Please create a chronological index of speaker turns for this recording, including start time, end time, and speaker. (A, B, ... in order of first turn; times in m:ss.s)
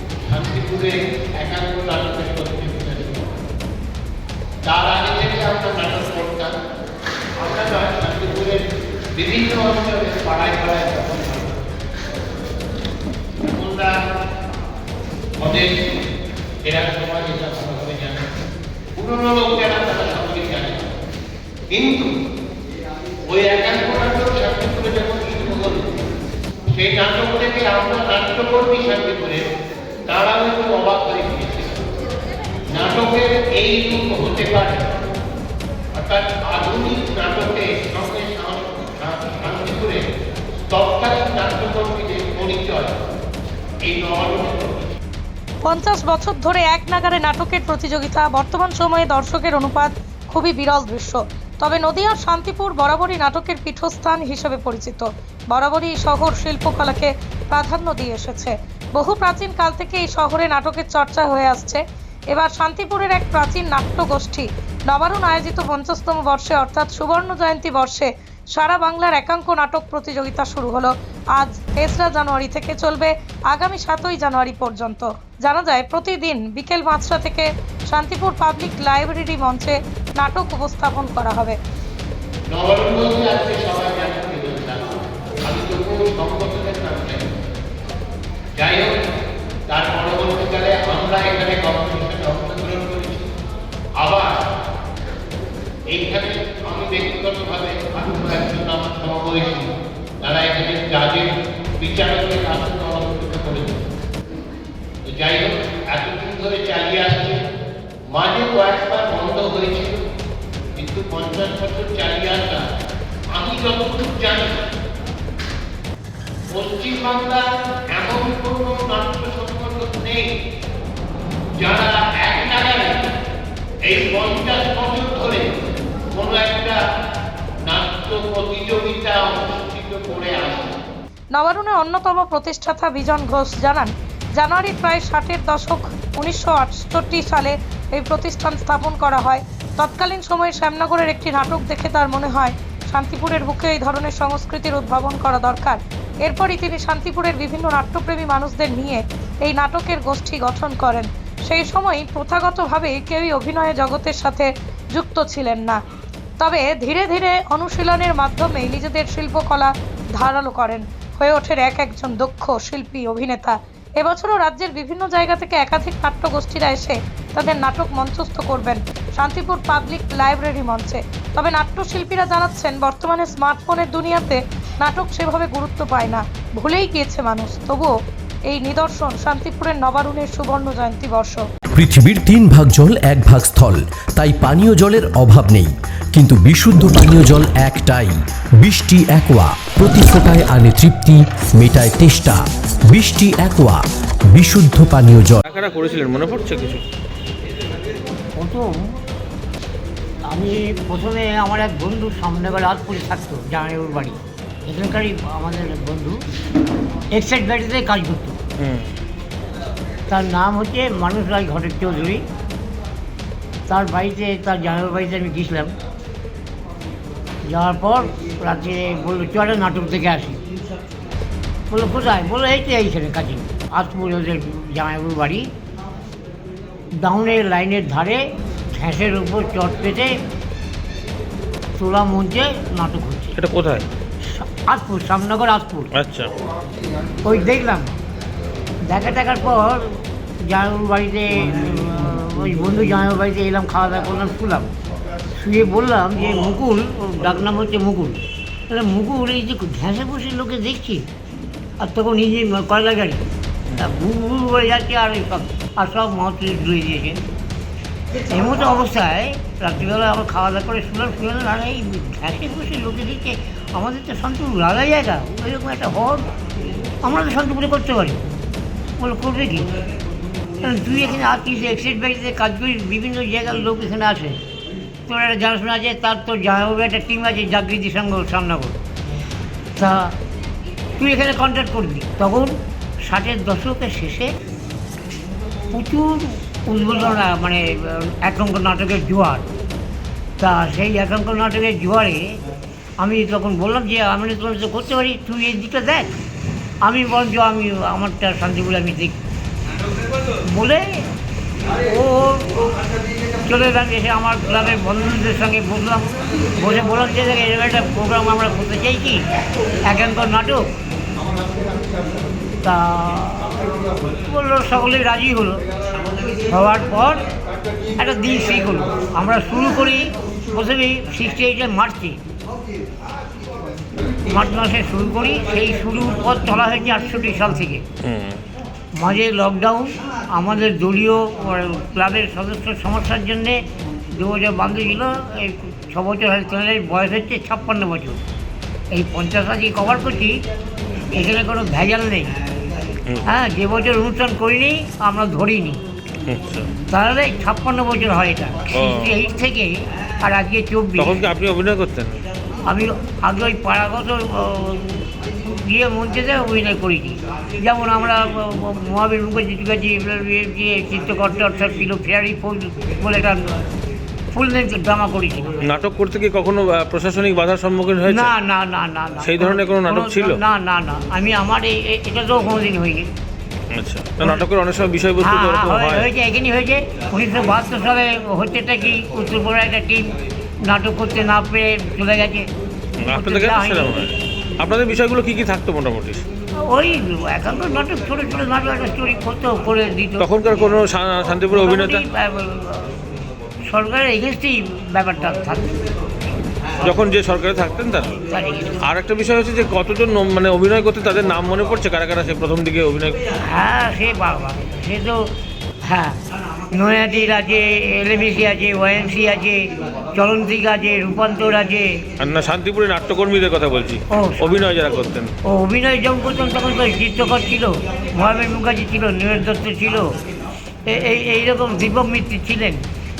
0:00.3-0:03.2 A
0:04.6-0:06.5 A
0:07.4-0:08.6 A
0:09.2-0:11.5 A
0:13.5-0:13.9 A
0:15.4-0:16.0 A
0:16.6-0:18.2 A
0:19.0-0:20.9 A
0:21.7-0:22.1 A
0:23.3-0:25.8 A
0:26.7-0:29.4 A
0:30.1-0:31.8 A
0:32.7-0:34.9 A
0:35.9-0:40.0 A
0:40.7-0:42.9 A
0:43.8-0:44.7 A
0:45.7-1:01.8 B
1:02.3-1:21.6 B
1:22.5-1:24.8 A
1:25.4-1:27.4 A
1:28.6-1:28.9 A
1:29.7-1:33.3 A
1:34.0-1:34.3 A
1:35.9-1:39.7 A
1:40.2-1:43.8 A
1:45.0-1:47.4 A
1:48.1-1:50.0 A
1:50.8-1:52.6 A
1:53.3-1:54.6 A
1:56.5-1:57.4 A
1:57.9-2:00.2 A
2:01.6-2:03.0 A
2:03.8-2:05.5 A
2:06.1-2:06.8 A
2:07.6-2:10.8 A
2:11.3-2:35.8 B
2:36.4-2:57.9 B
2:58.5-3:01.4 B
3:01.7-3:13.8 C
3:14.3-3:15.4 C
3:15.4-3:16.8 D
3:18.4-3:18.8 E
3:20.3-3:26.2 E
3:27.1-3:28.4 E
3:28.6-3:28.9 D
3:30.1-3:32.2 E
3:33.7-3:35.7 E
3:37.4-3:40.4 E
3:41.7-3:45.5 E
3:47.0-3:50.1 E
3:51.8-3:53.4 E
3:53.4-3:53.8 D
3:54.2-3:55.9 E
3:56.0-3:56.3 D
3:57.2-3:57.9 E
3:58.8-3:59.9 E
4:00.4-4:04.7 E
4:05.3-4:11.1 E
4:11.8-4:13.2 E
4:13.8-4:17.2 E
4:18.3-4:26.3 E
4:27.0-4:28.2 E
4:29.0-4:29.7 E
4:30.6-4:34.4 E
4:35.1-4:38.8 E
4:39.8-4:40.1 E
4:41.0-4:44.3 E
4:45.7-4:49.4 E
4:50.4-4:52.4 E
4:53.0-4:56.1 E
4:56.8-4:59.2 E
5:00.5-5:01.0 E
5:01.8-5:02.7 E
5:03.4-5:09.2 E
5:09.8-5:10.6 E
5:12.6-5:15.6 E
5:16.5-5:17.2 E
5:18.0-5:22.2 E
5:24.3-5:27.8 E
5:28.0-5:28.4 D
5:29.0-5:33.6 E
5:34.1-5:38.2 E
5:38.9-5:40.4 E
5:41.1-5:42.3 E
5:43.2-5:45.8 E
5:46.2-5:46.7 D
5:46.9-5:51.2 E
5:48.8-5:49.1 D
5:51.0-5:52.2 D
5:52.6-6:03.5 E
6:04.3-6:05.6 E
6:05.6-6:08.3 D
6:08.0-6:13.1 E
6:09.2-6:10.3 D
6:13.7-6:16.1 D
6:15.2-6:22.5 E
6:23.0-6:26.2 D
6:23.1-6:24.1 E
6:26.6-6:30.2 E
6:30.2-6:32.0 D
6:31.5-6:33.0 E
6:33.7-6:35.8 E
6:36.8-6:38.2 D
6:38.3-6:38.8 E
6:38.8-6:43.2 D
6:43.4-6:45.2 E
6:45.8-6:46.2 E
6:46.7-6:51.9 E
6:52.2-6:55.3 D
6:54.1-6:54.5 E
6:55.4-7:00.1 E
7:00.8-7:02.8 E